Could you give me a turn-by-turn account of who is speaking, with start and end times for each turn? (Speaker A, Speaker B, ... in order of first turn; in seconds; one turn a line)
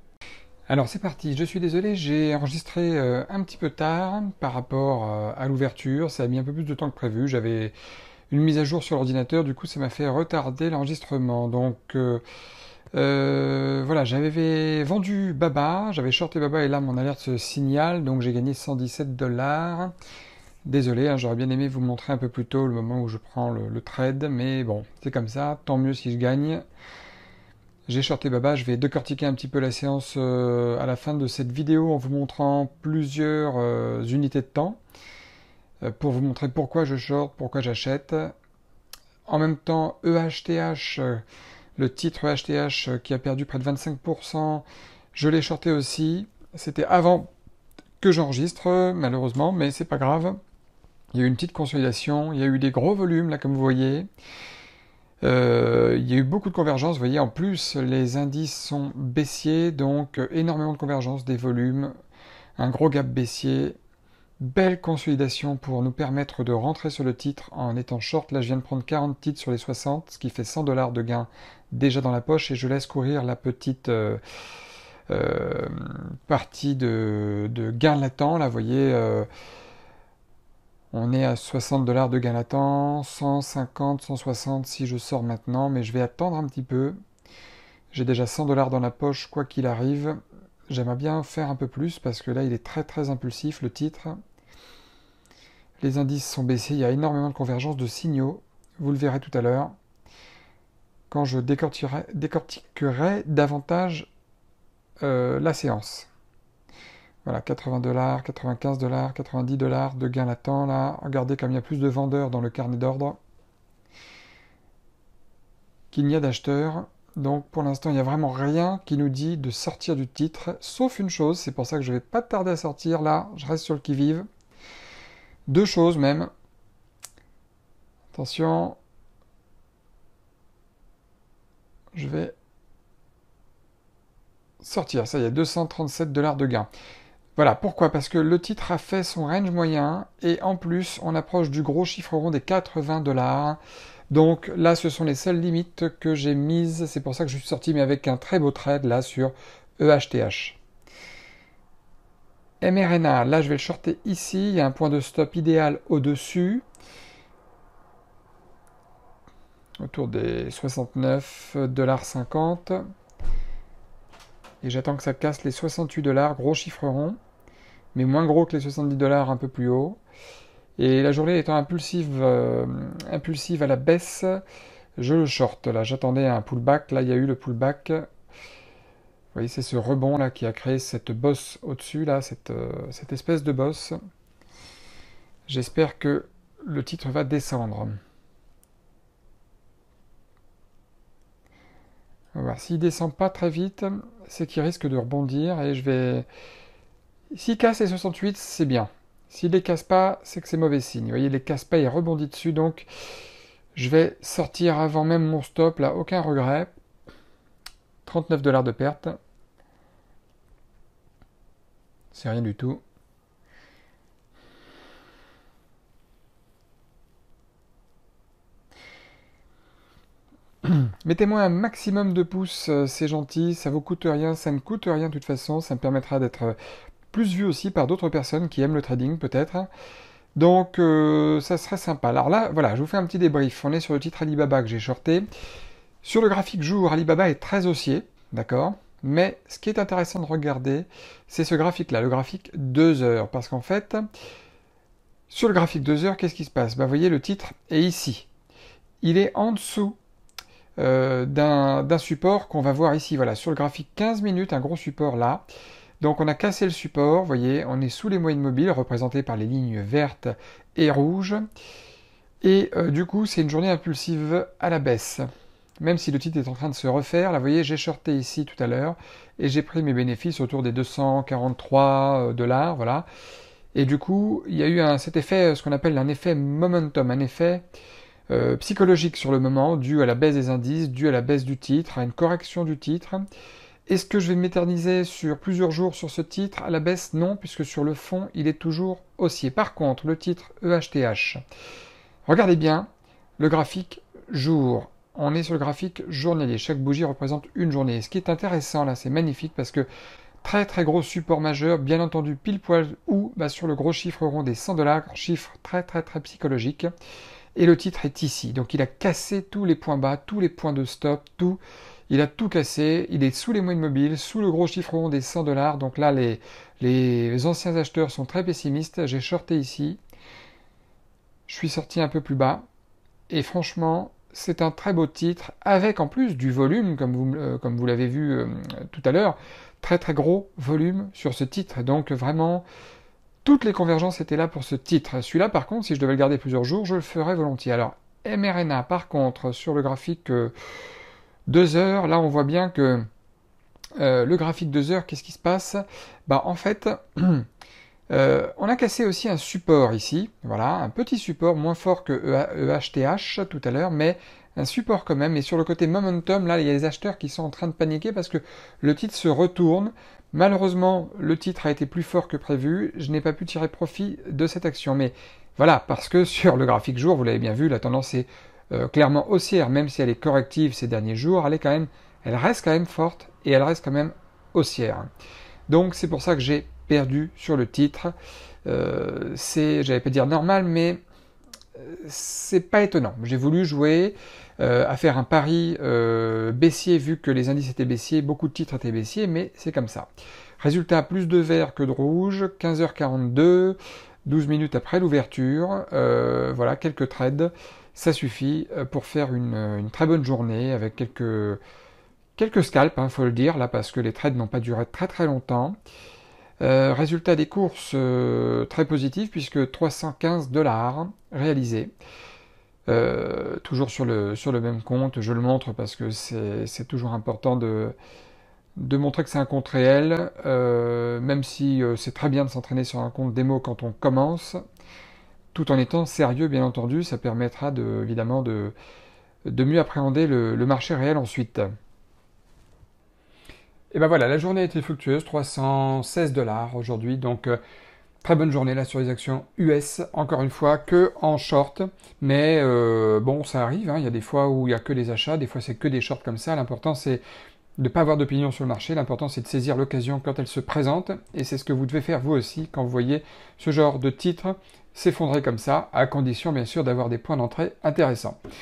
Speaker A: 0.7-7.7
Speaker A: 8.3-12.2
Speaker A: 12.9-19.9
Speaker A: 20.6-26.6
Speaker A: 27.9-34.8
Speaker A: 35.8-38.3
Speaker A: 39.3-41.2
Speaker A: 41.8-47.3
Speaker A: 48.0-50.4
Speaker A: 51.1-54.1
Speaker A: 55.2-61.9
Speaker A: 62.6-63.8
Speaker A: 64.4-74.2
Speaker A: 75.1-79.3
Speaker A: 80.9-87.0
Speaker A: 87.9-90.2
Speaker A: 90.7-94.1
Speaker A: 95.8-99.8
Speaker A: 101.1-104.1
Speaker A: 105.0-106.1
Speaker A: 107.2-113.2
Speaker A: 115.9-124.3
Speaker A: 125.5-126.3
Speaker A: 128.1-128.8
Speaker A: 131.9-132.3
Speaker A: 134.6-136.7
Speaker A: 137.4-143.6
Speaker A: 144.1-150.6
Speaker A: 152.6-156.7
Speaker A: 159.8-162.8
Speaker A: 164.6-167.2
Speaker A: 167.9-170.0
Speaker A: 170.8-174.4
Speaker A: 175.0-178.1
Speaker A: 179.3-184.0
Speaker A: 185.5-188.0
Speaker A: 192.3-196.3
Speaker A: 197.3-202.9
Speaker A: 203.8-206.7
Speaker A: 208.1-209.2
Speaker A: 212.1-212.8
Speaker A: 220.6-226.6
Speaker A: 227.1-229.7
Speaker A: 230.3-235.3
Speaker A: 236.0-244.1
Speaker A: 245.3-248.3
Speaker A: 249.0-250.0
Speaker A: 250.8-255.4
Speaker A: 256.0-261.4
Speaker A: 262.4-265.2
Speaker A: 265.8-273.1
Speaker A: 273.7-277.6
Speaker A: 278.3-283.2
Speaker A: 283.9-291.4
Speaker A: 292.3-292.9
Speaker A: 293.4-299.9
Speaker A: 300.4-306.9
Speaker A: 307.6-320.0
Speaker A: 321.5-322.6
Speaker A: 323.3-332.6
Speaker A: 333.4-340.5
Speaker A: 341.5-343.1
Speaker A: 344.0-347.5
Speaker A: 348.1-375.1
Speaker A: 375.7-378.1
Speaker A: 378.6-381.0
Speaker A: 381.8-390.1
Speaker A: 390.6-401.6
Speaker A: 402.4-405.8
Speaker A: 406.6-411.9
Speaker A: 412.9-418.0
Speaker A: 418.8-424.6
Speaker A: 425.5-428.8
Speaker A: 429.5-431.7
Speaker A: 433.9-437.6
Speaker A: 438.2-447.2
Speaker A: 447.8-458.4